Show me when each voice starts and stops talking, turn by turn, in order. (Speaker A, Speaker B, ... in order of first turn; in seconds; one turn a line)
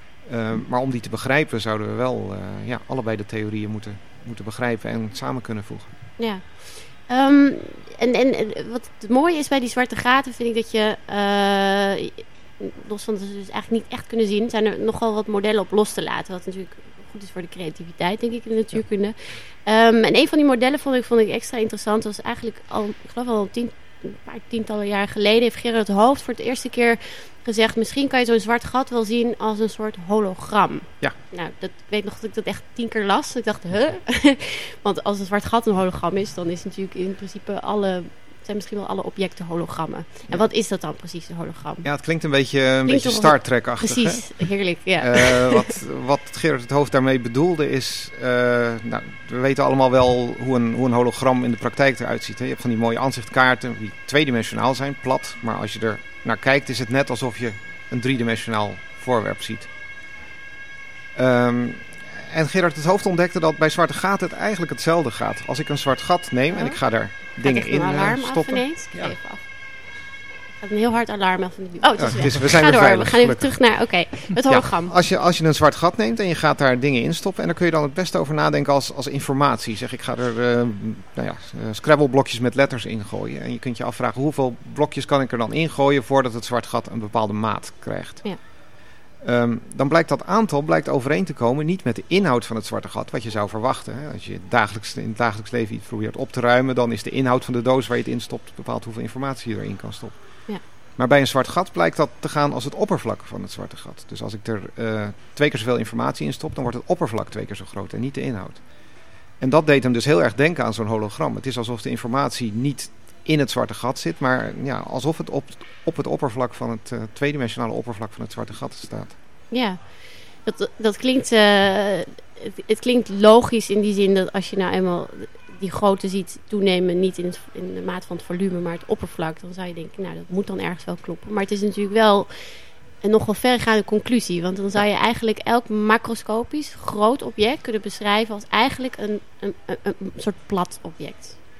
Speaker A: 0.2-5.9
Speaker B: 6.2-41.8
Speaker A: 41.8-44.3
Speaker B: 42.9-45.7
Speaker A: 45.0-59.7
Speaker A: 61.1-69.2
Speaker B: 66.5-69.4
Speaker B: 70.6-74.9
Speaker A: 72.0-88.3
Speaker A: 89.2-100.1
Speaker A: 101.0-108.6
Speaker A: 109.4-119.2
Speaker B: 119.5-119.8
Speaker B: 120.4-132.3
Speaker B: 133.0-141.4